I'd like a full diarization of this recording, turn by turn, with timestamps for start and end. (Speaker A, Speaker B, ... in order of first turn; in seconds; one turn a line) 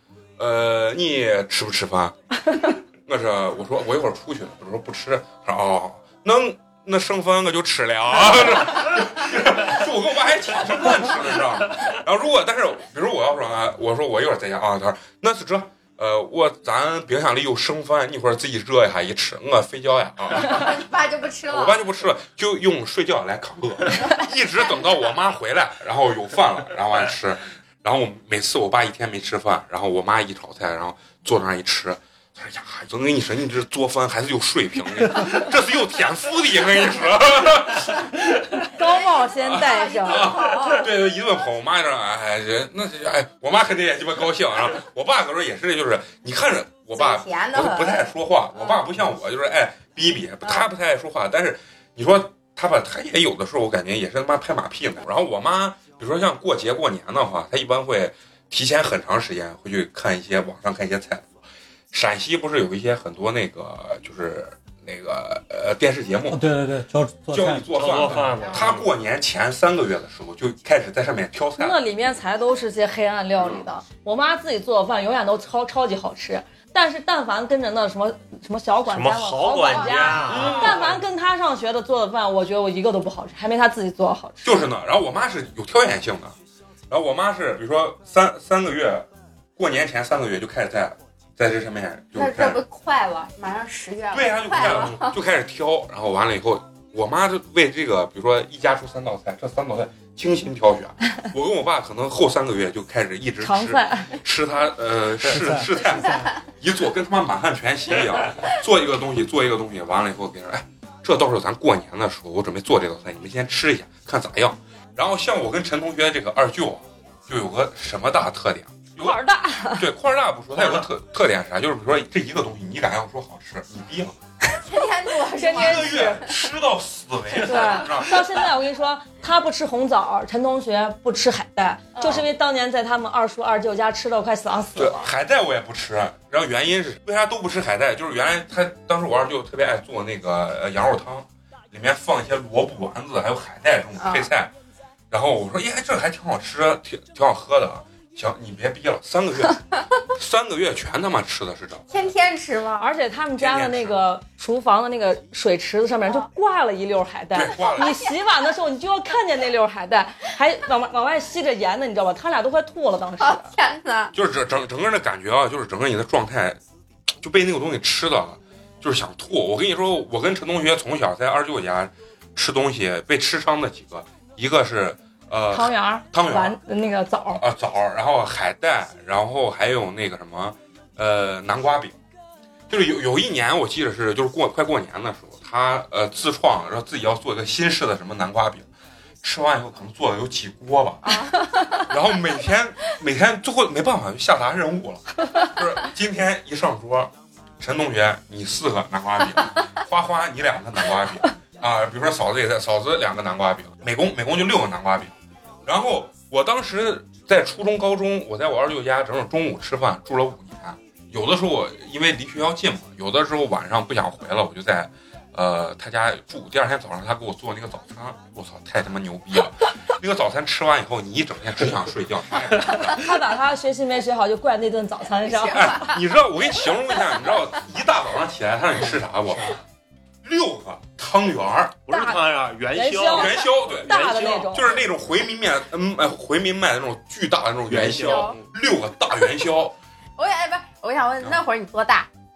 Speaker A: 0.4-20.9
Speaker B: 20.4-21.8
Speaker A: 21.5-38.5
Speaker B: 23.9-24.3
Speaker C: 38.7-40.4
Speaker B: 38.8-40.9
Speaker A: 39.4-61.3
Speaker B: 46.9-48.1
Speaker A: 61.9-66.4
Speaker D: 66.3-68.3
Speaker A: 67.3-71.8
Speaker E: 67.7-68.9
Speaker B: 68.4-68.8
Speaker C: 71.6-84.6
Speaker A: 73.4-73.7
Speaker E: 78.9-80.9
Speaker B: 79.7-80.8
Speaker A: 80.3-81.0
Speaker A: 84.4-86.3
Speaker A: 86.9-92.6
Speaker B: 92.2-95.2
Speaker A: 94.1-119.2
Speaker C: 103.4-104.2
Speaker D: 105.2-105.8
Speaker C: 119.0-119.9
Speaker A: 119.8-124.2
Speaker E: 120.6-120.8
Speaker B: 124.7-126.3
Speaker C: 125.3-126.2
Speaker A: 125.5-128.5
Speaker C: 127.4-135.1
Speaker B: 131.9-132.3
Speaker A: 134.8-144.5
Speaker B: 144.0-144.3
Speaker A: 145.1-151.9
Speaker B: 151.9-152.9
Speaker C: 152.8-163.5
Speaker A: 153.4-154.0
Speaker A: 157.3-158.0
Speaker B: 157.5-158.1
Speaker B: 163.2-164.1
Speaker A: 164.1-166.6
Speaker A: 167.2-176.6
Speaker C: 175.5-177.4
Speaker A: 177.4-182.0
Speaker A: 182.7-188.7
Speaker A: 189.2-191.3
Speaker B: 191.0-191.9
Speaker A: 191.8-205.1
Speaker A: 205.7-223.1
Speaker C: 222.7-226.0
Speaker B: 225.2-225.9
Speaker A: 225.5-229.6
Speaker A: 230.2-231.8
Speaker E: 231.9-234.7
Speaker C: 231.9-232.2
Speaker C: 232.7-234.7
Speaker A: 233.1-239.8
Speaker E: 237.7-238.5
Speaker B: 237.9-238.4
Speaker B: 240.2-242.1